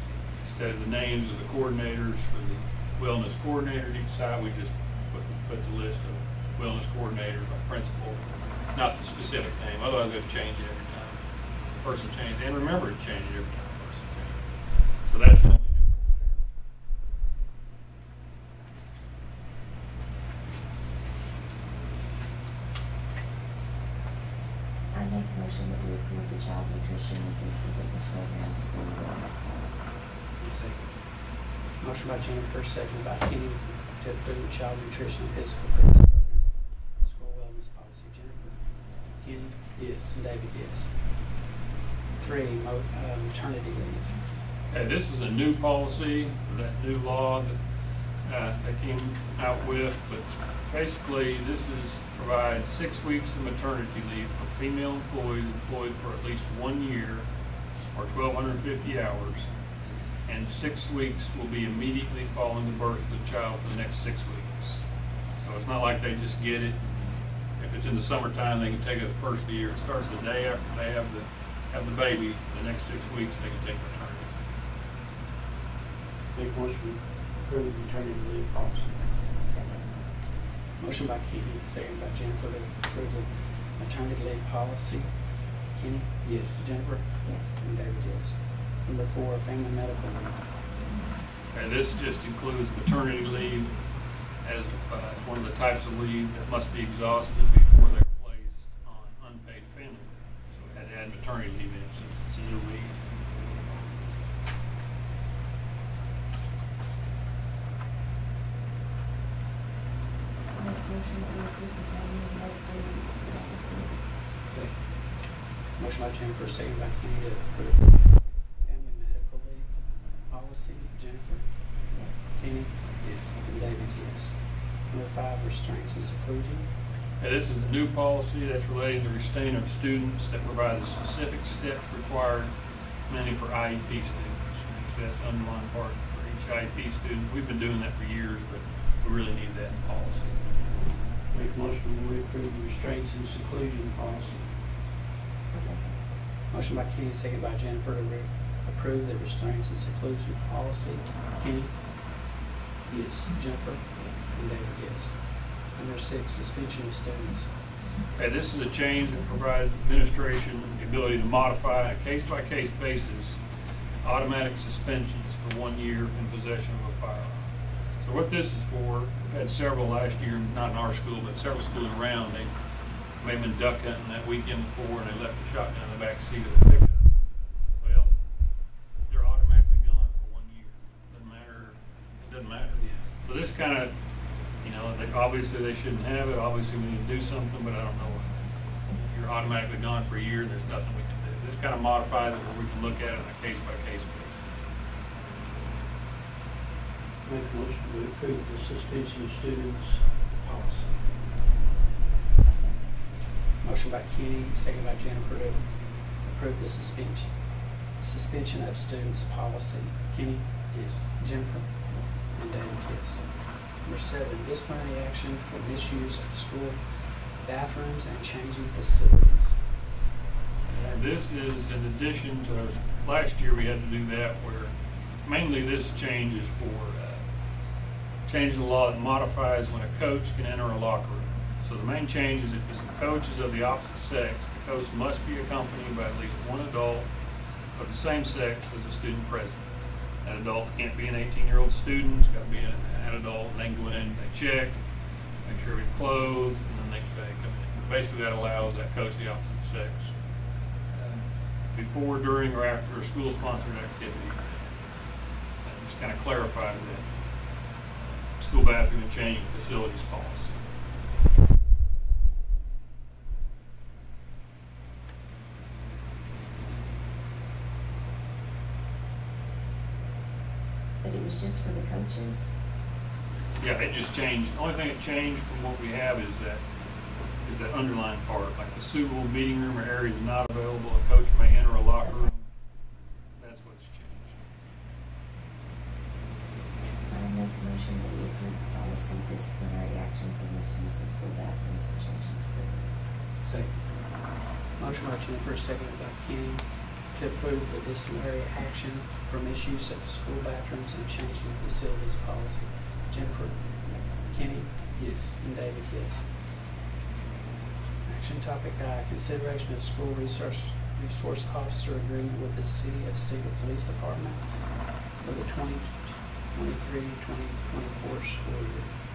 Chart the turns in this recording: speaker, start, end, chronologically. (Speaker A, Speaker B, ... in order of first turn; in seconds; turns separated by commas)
Speaker A: 0.4-11.2, Speaker A: 11.8-16.4, Speaker B: 24.9-29.9, Speaker C: 30.4-30.9, Speaker D: 31.8-41.0, Speaker B: 38.9-39.1, Speaker C: 39.8-40.2, Speaker D: 42.2-44.2, Speaker A: 44.7-47.6, Speaker A: 48.2-57.3, Speaker A: 57.9-59.5, Speaker A: 60.2-64.8, Speaker A: 65.4-66.8, Speaker A: 67.6-74.5, Speaker C: 76.3-79.1, Speaker B: 79.4-80.1, Speaker D: 80.8-85.2, Speaker D: 85.7-90.4, Speaker C: 86.2-86.6, Speaker B: 87.2-87.6, Speaker A: 91.5-103.0, Speaker B: 110.5-114.0, Speaker C: 114.5-114.8, Speaker D: 115.8-119.7, Speaker D: 120.3-121.4, Speaker B: 121.9-122.3, Speaker D: 122.3-126.7, Speaker C: 123.0-123.3, Speaker A: 127.2-132.5, Speaker A: 133.1-140.5, Speaker C: 141.2-144.5, Speaker B: 145.5-146.0, Speaker D: 146.5-151.7, Speaker C: 152.9-153.3, Speaker D: 153.3-157.5, Speaker B: 153.9-154.3, Speaker A: 158.2-163.4, Speaker A: 164.0-172.5, Speaker A: 173.2-177.2, Speaker A: 177.8-178.1, Speaker A: 179.1-183.9, Speaker C: 182.8-183.0, Speaker A: 184.6-194.4, Speaker C: 197.2-201.0, Speaker B: 202.4-202.9, Speaker D: 203.6-205.7, Speaker D: 206.2-207.3, Speaker D: 208.0-213.3, Speaker C: 210.7-211.0, Speaker B: 211.9-212.3, Speaker D: 213.8-219.6, Speaker A: 220.7-227.2, Speaker A: 228.2-237.1, Speaker A: 237.7-239.7, Speaker A: 240.2-244.8, Speaker A: 245.4-250.2, Speaker A: 250.9-254.9, Speaker A: 255.6-260.6, Speaker B: 271.0-272.5, Speaker A: 273.6-276.7, Speaker A: 277.4-282.5, Speaker B: 282.0-282.3, Speaker A: 283.4-284.4, Speaker B: 287.1-293.1, Speaker C: 293.4-293.8, Speaker D: 294.8-306.3, Speaker B: 303.9-304.2, Speaker C: 304.9-305.3, Speaker D: 308.1-314.4, Speaker D: 315.2-318.9